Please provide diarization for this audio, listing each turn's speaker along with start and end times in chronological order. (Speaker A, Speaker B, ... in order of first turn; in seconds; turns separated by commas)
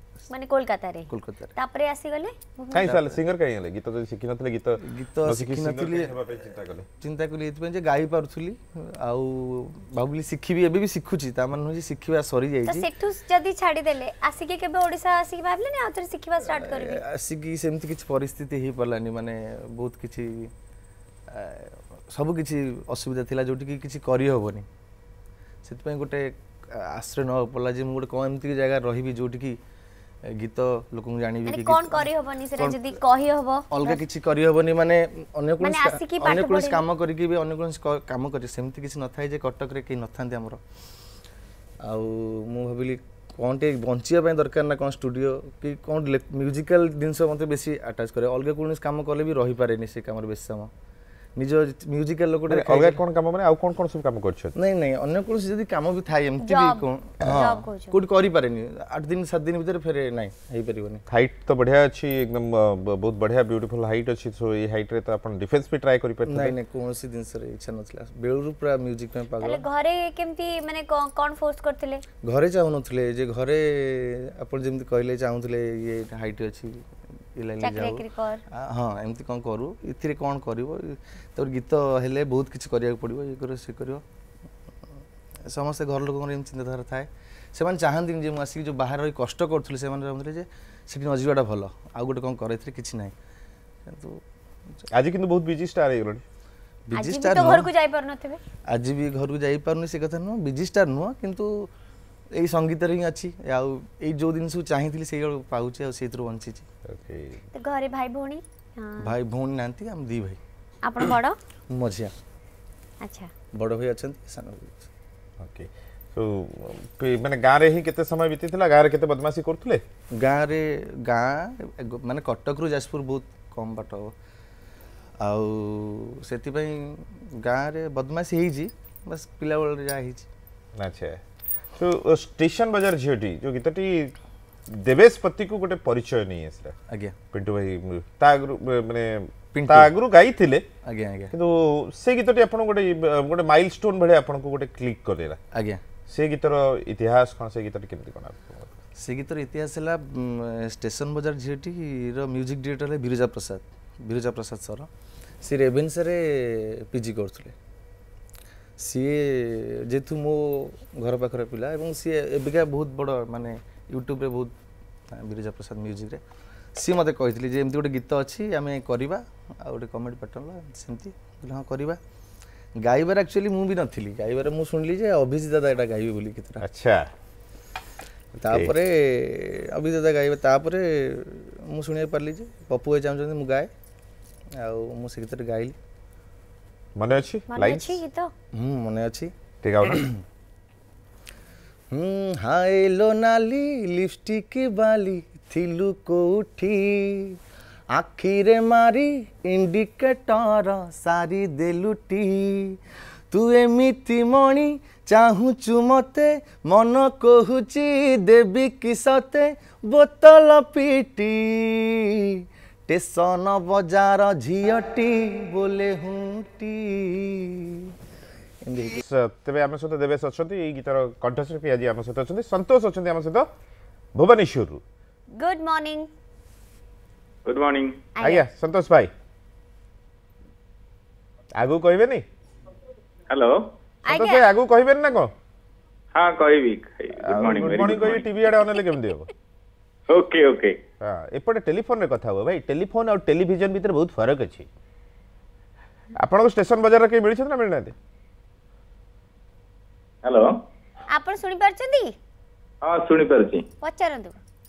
Speaker A: 0.3-2.9, Speaker B: 1.1-1.5, Speaker B: 2.7-3.2, Speaker C: 2.7-6.9, Speaker B: 4.8-6.4, Speaker B: 7.0-12.9, Speaker A: 12.7-17.0, Speaker B: 16.5-20.5, Speaker B: 21.3-24.7, Speaker B: 25.6-29.6, Speaker B: 30.2-33.0, Speaker A: 31.5-34.0, Speaker B: 33.7-40.6, Speaker A: 35.6-36.8, Speaker B: 41.8-50.7, Speaker B: 51.4-53.0, Speaker C: 52.5-54.5, Speaker B: 54.5-61.0, Speaker A: 56.4-58.0, Speaker C: 61.1-66.5, Speaker B: 66.3-69.6, Speaker A: 69.4-72.0, Speaker B: 72.2-84.0, Speaker A: 77.6-78.4, Speaker B: 85.4-93.1, Speaker B: 93.9-94.2, Speaker C: 94.9-96.2, Speaker B: 96.9-97.7, Speaker A: 97.0-98.4, Speaker B: 98.7-101.7, Speaker B: 102.3-106.7, Speaker C: 106.9-107.4, Speaker A: 107.5-109.1, Speaker B: 109.0-110.4, Speaker A: 110.8-111.4, Speaker B: 111.7-112.1, Speaker A: 113.0-113.3, Speaker B: 113.5-114.9, Speaker C: 115.4-119.8, Speaker B: 120.1-124.2, Speaker B: 125.2-130.3, Speaker C: 130.8-131.2, Speaker C: 131.8-134.1, Speaker C: 134.7-136.8, Speaker B: 136.9-137.2, Speaker C: 137.3-140.7, Speaker B: 139.5-139.9, Speaker B: 140.8-141.3, Speaker C: 141.3-145.4, Speaker B: 145.5-145.8, Speaker C: 146.1-148.7, Speaker B: 149.0-154.9, Speaker B: 155.4-157.6, Speaker B: 158.8-164.5, Speaker B: 165.1-166.2, Speaker B: 166.8-172.0, Speaker B: 172.8-176.6, Speaker C: 176.6-177.1, Speaker B: 178.4-183.7, Speaker C: 178.5-178.7, Speaker B: 184.6-185.8, Speaker C: 187.0-188.0, Speaker A: 187.5-188.3, Speaker B: 188.5-189.3, Speaker C: 189.6-190.1, Speaker B: 189.8-190.2, Speaker B: 191.9-197.4, Speaker B: 197.9-202.8, Speaker B: 203.3-217.9, Speaker B: 218.6-219.0, Speaker C: 219.0-223.5, Speaker C: 224.2-224.8, Speaker A: 225.3-226.1, Speaker D: 227.5-228.0, Speaker A: 228.2-228.4, Speaker C: 228.2-229.1, Speaker C: 231.6-232.2, Speaker D: 233.3-233.7, Speaker A: 234.1-234.4, Speaker C: 234.1-235.3, Speaker D: 236.2-238.3, Speaker C: 237.2-239.3, Speaker D: 240.1-240.8, Speaker C: 241.0-244.7, Speaker C: 246.2-247.9, Speaker D: 250.2-250.6, Speaker A: 251.1-252.2, Speaker D: 252.8-253.6, Speaker A: 253.8-254.4